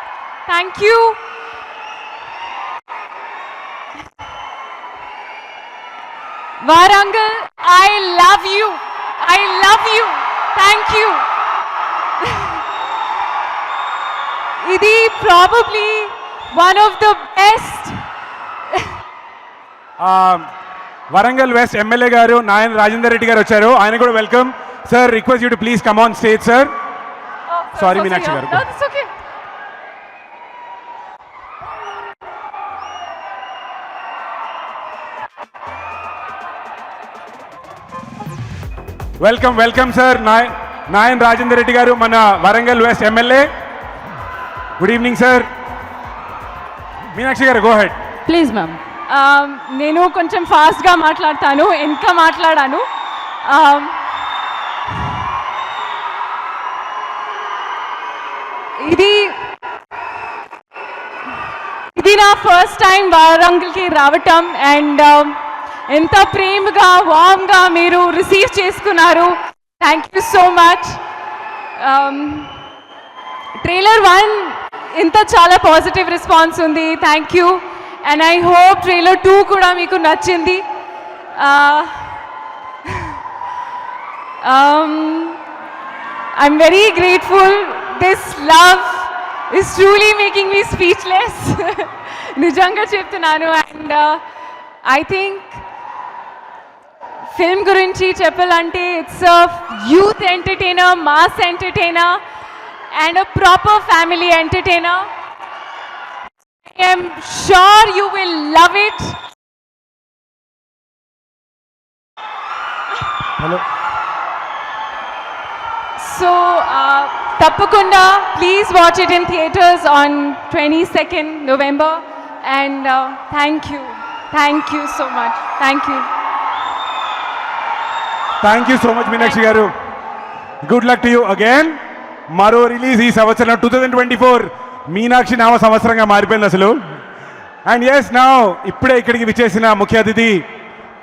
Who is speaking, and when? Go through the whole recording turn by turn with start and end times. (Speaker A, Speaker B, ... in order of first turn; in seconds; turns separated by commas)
Speaker A: 0.5-1.2, Speaker A: 6.6-11.3, Speaker A: 12.2-12.6, Speaker A: 14.6-17.9, Speaker A: 18.7-18.9, Speaker B: 20.0-20.5, Speaker B: 21.1-26.7, Speaker A: 27.5-29.1, Speaker B: 27.8-28.6, Speaker B: 39.2-43.5, Speaker B: 44.8-45.5, Speaker B: 47.1-48.0, Speaker A: 48.3-52.8, Speaker A: 53.4-54.0, Speaker A: 58.8-59.5, Speaker A: 61.9-71.0, Speaker A: 71.8-72.6, Speaker A: 73.6-80.7, Speaker A: 81.3-82.2, Speaker A: 82.8-83.2, Speaker A: 84.4-85.4, Speaker A: 86.3-94.2, Speaker A: 94.8-95.6, Speaker A: 97.3-102.2, Speaker A: 102.9-105.1, Speaker A: 106.6-109.2, Speaker A: 116.0-126.1, Speaker B: 128.4-129.7, Speaker B: 130.6-131.8, Speaker B: 132.3-136.8, Speaker B: 137.7-140.4